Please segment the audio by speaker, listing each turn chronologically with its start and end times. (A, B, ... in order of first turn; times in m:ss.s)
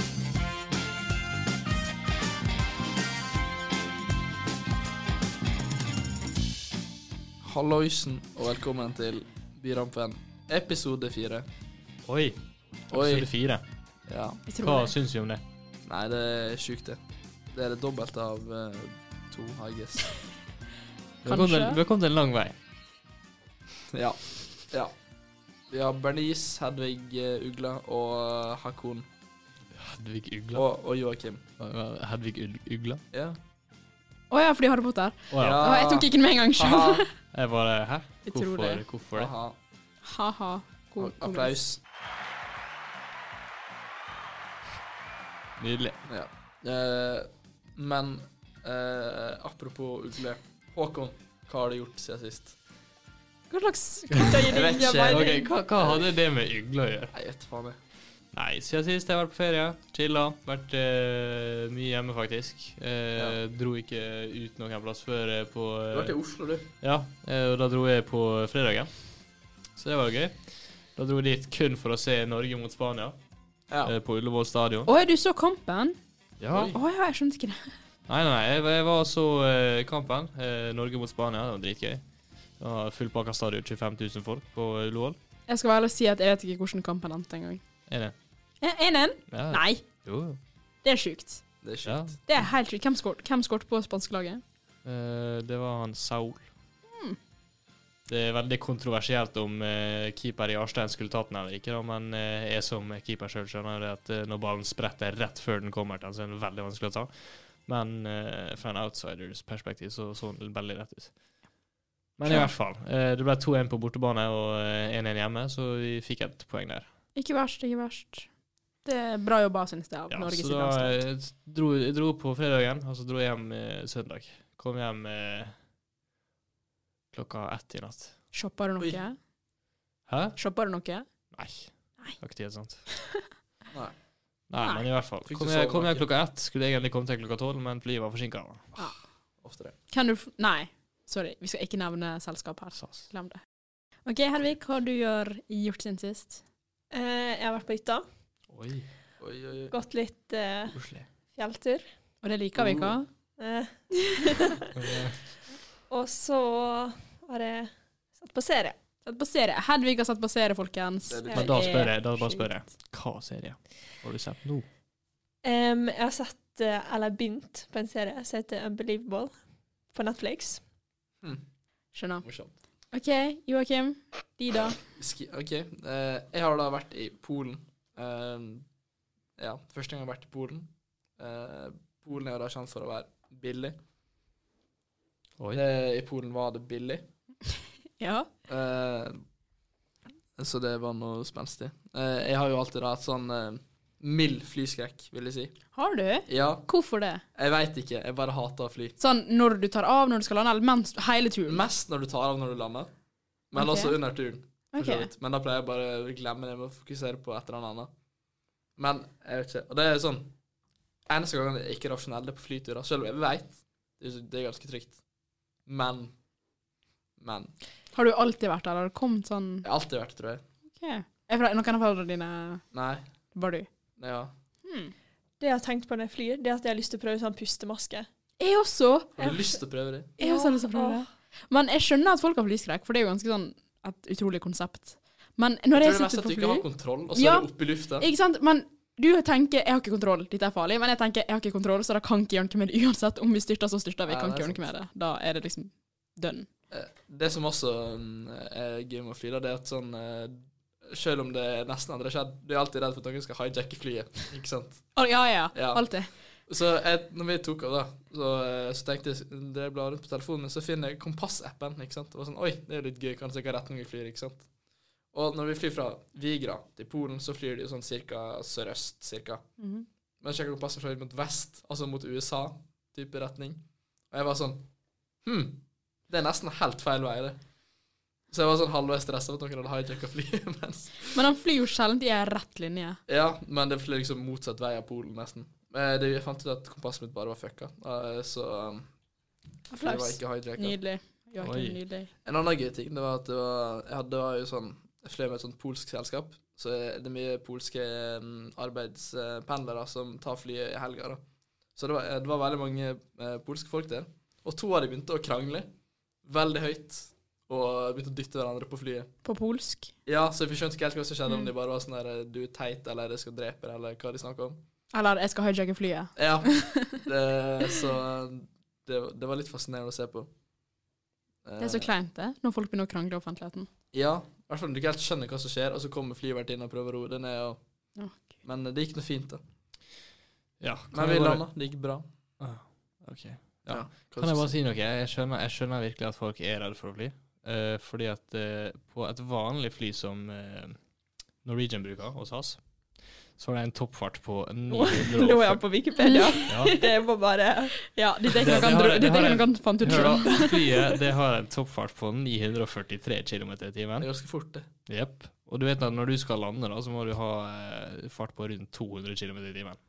0:07.4-0:11.5 A
0:12.0-0:12.4 B
0:12.9-0:13.3 A
0:12.9-0:13.6 B
0:14.1-0:14.4 A
0:14.5-0:14.9 C
0:14.6-0:15.4 B
0:15.8-0:17.0 A
0:17.5-0:20.1 A
0:21.2-0:21.8 C
0:21.2-0:22.5 B
0:23.9-0:24.9 A
0:25.7-0:29.1 A
0:29.7-0:30.6 B
0:30.5-0:31.4 A
0:31.6-0:33.0 B
0:33.1-0:33.4 A
0:34.3-0:37.1 C
0:35.3-0:35.7 B
0:35.4-0:37.1 A
0:37.3-0:39.3 B
0:38.2-0:38.8 C
0:39.2-0:39.6 A
0:40.0-0:41.6 C
0:41.0-0:41.8 A
0:45.6-0:46.0 B
0:46.1-0:52.5 A
0:53.5-0:55.3 C
0:54.3-0:56.1 A
0:55.0-0:57.1 B
0:57.1-0:57.8 A
0:58.3-1:06.1 B
1:05.9-1:06.7 A
1:06.8-1:08.9 B
1:09.8-1:13.2 B
1:13.8-1:14.9 B
1:14.8-1:16.0 C
1:16.4-1:16.8 B
1:16.6-1:17.7 C
1:18.1-1:22.0 B
1:22.6-1:25.2 B
1:25.5-1:27.6 C
1:27.9-1:28.1 B
1:28.6-1:29.8 C
1:29.3-1:30.4 B
1:30.8-1:31.4 C
1:31.6-1:32.2 A
1:31.8-1:32.1 B
1:32.3-1:34.4 C
1:34.8-1:36.5 B
1:36.9-1:37.2 C
1:38.1-1:51.1 B
1:52.2-1:56.9 B
1:52.2-1:52.5 C
1:57.1-1:58.3 C
1:58.8-2:01.0 C
2:00.1-2:05.5 B
2:07.1-2:08.2 B
2:08.3-2:09.2 C
2:10.1-2:10.4 B
2:10.4-2:11.0 C
2:11.3-2:12.8 B
2:13.0-2:13.2 C
2:14.5-2:18.6 B
2:15.3-2:16.0 A
2:19.4-2:19.8 A
2:19.9-2:23.4 C
2:22.8-2:23.0 B
2:24.0-2:26.4 C
2:26.9-2:28.0 D
2:28.5-2:28.9 B
2:29.2-2:29.7 A
2:29.7-2:30.8 D
2:30.7-2:31.0 B
2:31.3-2:31.9 D
2:32.2-2:33.1 C
2:32.5-2:32.9 A
2:33.4-2:34.7 D
2:34.8-2:35.2 B
2:35.9-2:38.8 D
2:39.0-2:42.5 C
2:41.1-2:41.7 A
2:41.3-2:41.9 D
2:41.3-2:44.6 B
2:45.4-2:49.3 D
2:49.9-2:50.6 D
2:51.9-2:52.2 C
2:52.2-2:52.5 A
2:52.9-2:54.8 C
2:55.0-2:58.6 A
2:59.4-3:03.8 A
3:05.5-3:07.1 A
3:08.0-3:08.3 C
3:08.5-3:09.2 A
3:10.4-3:15.5 A
3:15.7-3:17.2 C
3:16.3-3:16.7 A
3:17.3-3:19.0 A
3:19.0-3:21.6 C
3:21.4-3:22.9 A
3:23.5-3:27.9 A
3:23.6-3:24.0 C
3:24.7-3:25.1 C
3:28.8-3:30.3 A
3:31.1-3:35.0 A
3:35.6-3:36.1 A
3:37.2-3:37.5 A
3:37.9-3:39.6 C
3:39.6-3:40.4 A
3:40.8-3:42.6 C
3:42.7-3:43.0 A
3:43.3-3:43.7 C
3:44.0-3:44.3 A
3:44.6-3:44.9 C
3:45.4-3:48.1 D
3:48.4-3:49.1 C
3:49.2-3:50.2 A
3:50.2-3:51.1 D
3:50.2-4:06.5 C
3:55.7-3:58.0 A
4:04.1-4:04.6 A
4:06.7-4:24.5 A
4:14.9-4:16.1 C
4:25.1-4:29.4 A
4:29.6-4:29.8 C
4:30.2-4:34.7 A
4:35.2-4:37.4 A
4:38.3-4:41.1 A
4:41.1-4:43.0 C
4:43.1-4:48.8 A
4:49.7-4:52.1 C
4:49.8-4:50.8 A
4:51.4-4:51.8 B
4:52.2-5:01.2 A
5:01.8-5:05.7 A
5:06.2-5:09.1 A
5:09.2-5:09.9 C
5:10.0-5:14.6 A
5:14.9-5:17.0 C
5:16.2-5:20.3 A
5:21.4-5:21.9 A
5:21.6-5:23.7 C
5:23.9-5:27.6 A
5:28.4-5:29.4 A
5:30.6-5:31.4 B
5:30.9-5:32.0 A
5:32.4-5:40.8 B
5:33.6-5:34.5 A
5:41.4-5:42.6 B
5:43.4-5:45.6 B
5:44.7-5:47.8 D
5:46.0-5:46.9 C
5:47.8-5:50.5 C
5:48.4-5:54.1 B
5:54.0-5:54.7 A
5:54.9-5:59.8 B